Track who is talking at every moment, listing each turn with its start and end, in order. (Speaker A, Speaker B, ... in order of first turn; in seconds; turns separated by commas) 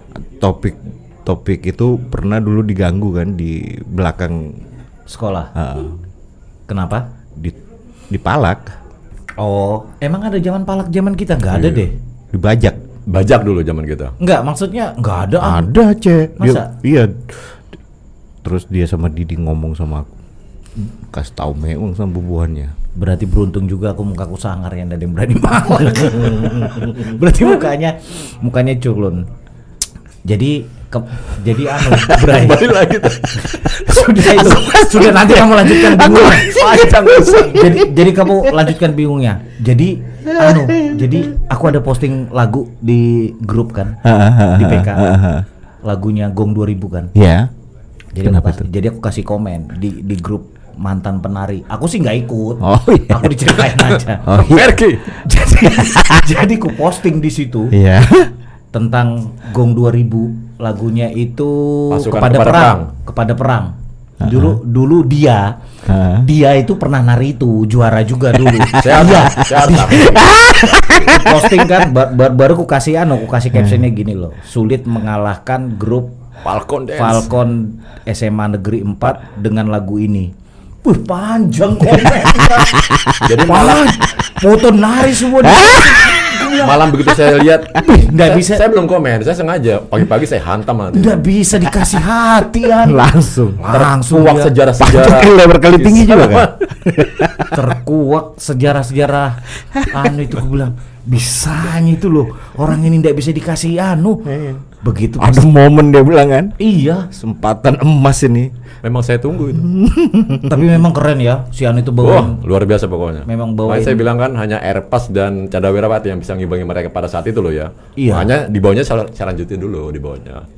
Speaker A: 0.2-4.6, Speaker B: 5.1-5.5, Speaker A: 5.5-6.0, Speaker B: 6.7-7.0, Speaker A: 8.1-8.7, Speaker B: 9.4-11.9, Speaker C: 11.5-11.9, Speaker A: 12.3-12.8, Speaker C: 13.1-14.1, Speaker B: 14.2-15.7, Speaker A: 15.4-17.4, Speaker B: 16.4-16.7, Speaker A: 18.4-20.1, Speaker A: 20.8-22.7, Speaker B: 23.0-29.3, Speaker A: 26.1-27.2, Speaker B: 30.2-32.7, Speaker C: 32.1-34.0, Speaker B: 33.6-44.0, Speaker A: 33.9-38.5, Speaker C: 36.3-37.5, Speaker A: 40.3-41.2, Speaker A: 44.0-45.5, Speaker B: 44.5-45.1, Speaker B: 45.8-47.1, Speaker A: 47.1-47.5, Speaker B: 48.1-54.5, Speaker A: 48.2-48.6, Speaker A: 52.6-53.5, Speaker C: 53.8-55.2, Speaker A: 54.2-54.8, Speaker B: 55.2-57.7, Speaker A: 55.8-56.3, Speaker A: 57.7-58.3, Speaker B: 58.7-65.5, Speaker C: 61.9-62.9, Speaker A: 64.2-64.6, Speaker A: 65.8-66.3, Speaker B: 66.2-70.1, Speaker A: 68.4-71.7, Speaker C: 68.8-71.1, Speaker B: 71.0-76.2, Speaker A: 73.5-73.8, Speaker C: 76.4-77.3, Speaker B: 76.9-80.3, Speaker B: 80.8-82.8, Speaker A: 82.4-83.8, Speaker C: 83.2-83.9, Speaker B: 83.4-86.9, Speaker A: 85.2-86.5, Speaker C: 86.5-91.2, Speaker B: 87.8-88.7, Speaker B: 90.9-94.5, Speaker A: 92.7-93.7, Speaker C: 93.6-96.7, Speaker A: 94.8-97.7, Speaker B: 97.5-104.3, Speaker A: 104.3-104.6, Speaker B: 104.8-105.5, Speaker A: 105.2-106.5, Speaker B: 106.6-107.1, Speaker A: 107.1-108.5, Speaker C: 108.8-109.7, Speaker A: 109.6-110.6, Speaker B: 110.4-112.4, Speaker C: 112.0-120.5, Speaker B: 113.3-114.0, Speaker B: 118.0-118.3